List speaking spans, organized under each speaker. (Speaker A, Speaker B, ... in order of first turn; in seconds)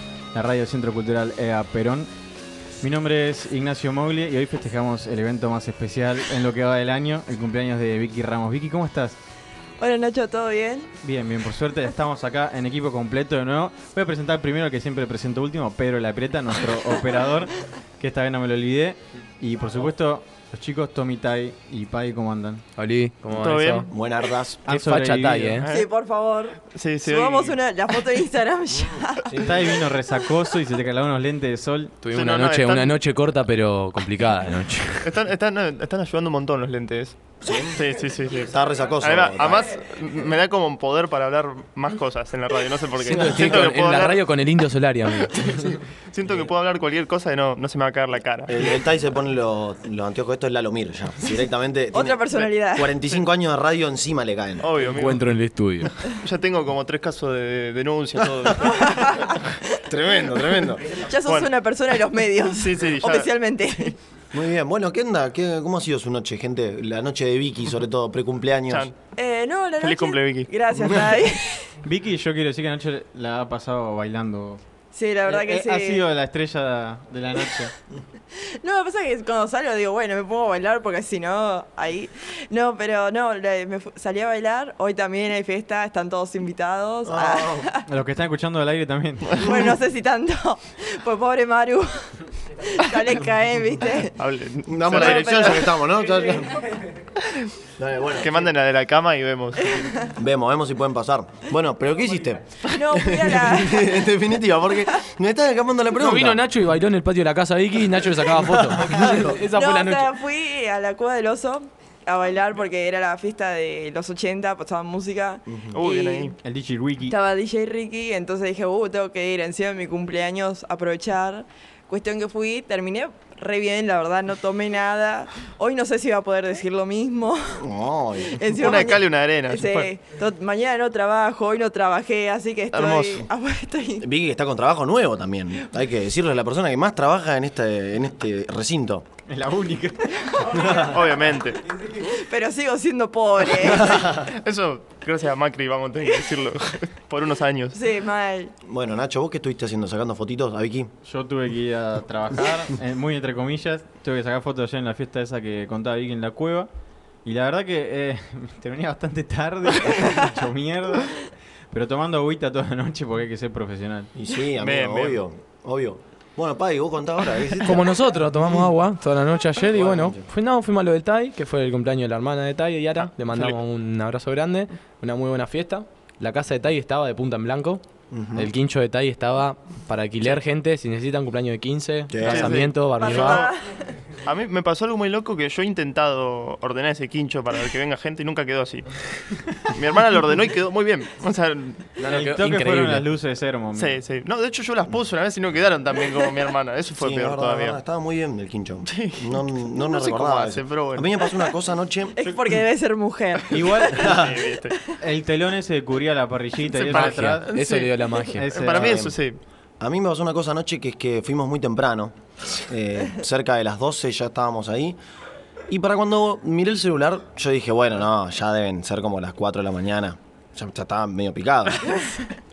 Speaker A: 0.3-2.1, 2.8-9.2, 11.0-22.6, 24.6-25.6, 29.4-32.0, 71.8-74.6, 75.2-77.7, 87.9-89.5, 116.4-117.1, 139.3-140.9, 151.0-156.7, 157.2-161.2, 161.7-164.1, 192.1-194.0, 203.5-204.2, 205.0-207.6, 208.3-209.0
Speaker B: 9.8-10.9, 25.7-29.5, 51.9-52.9, 58.6-59.8, 61.0-64.0, 69.2-71.7, 74.9-76.0, 78.3-87.8, 89.3-94.2, 94.9-95.6, 99.7-100.1, 102.6-104.1, 109.0-116.3, 117.1-127.7, 128.2-134.1, 141.9-144.0, 147.7-148.5, 183.0-183.9, 202.2-204.2
Speaker C: 22.8-23.9, 24.7-25.7, 32.0-35.2, 43.0-45.8, 54.9-56.0, 105.9-110.1, 167.6-177.8, 178.3-183.5, 192.0-193.1, 206.9-208.5
Speaker D: 23.3-23.9, 25.6-25.9, 26.7-27.6, 32.1-33.0, 35.0-37.2, 37.7-44.2, 45.5-48.5, 54.6-55.3, 56.0-59.5, 61.2-61.5, 62.5-63.3, 68.7-68.9, 69.8-70.5, 94.2-95.7, 97.2-97.5, 98.2-100.1, 115.7-116.3, 128.5-129.9, 132.7-133.3, 140.7-141.6, 144.2-147.8, 164.5-165.2, 182.2-183.5, 184.2-191.9, 193.8-197.8, 198.8-201.4, 204.0-204.8, 206.8-209.4
Speaker E: 23.9-24.6, 28.7-29.7, 37.4-37.9, 38.4-39.7, 48.5-54.8, 59.8-61.1, 64.3-68.9, 87.0-87.7, 94.7-96.7, 97.8-98.5, 100.1-106.4, 108.3-109.3, 115.5-115.8, 127.6-128.5, 134.0-139.1, 140.6-140.9, 143.7-144.3, 148.6-150.9, 164.1-168.5, 169.7-170.2, 178.1-178.5, 182.1-182.7, 196.9-202.3, 204.0-204.3, 208.7-209.2, 209.8-215.0, 215.7-222.0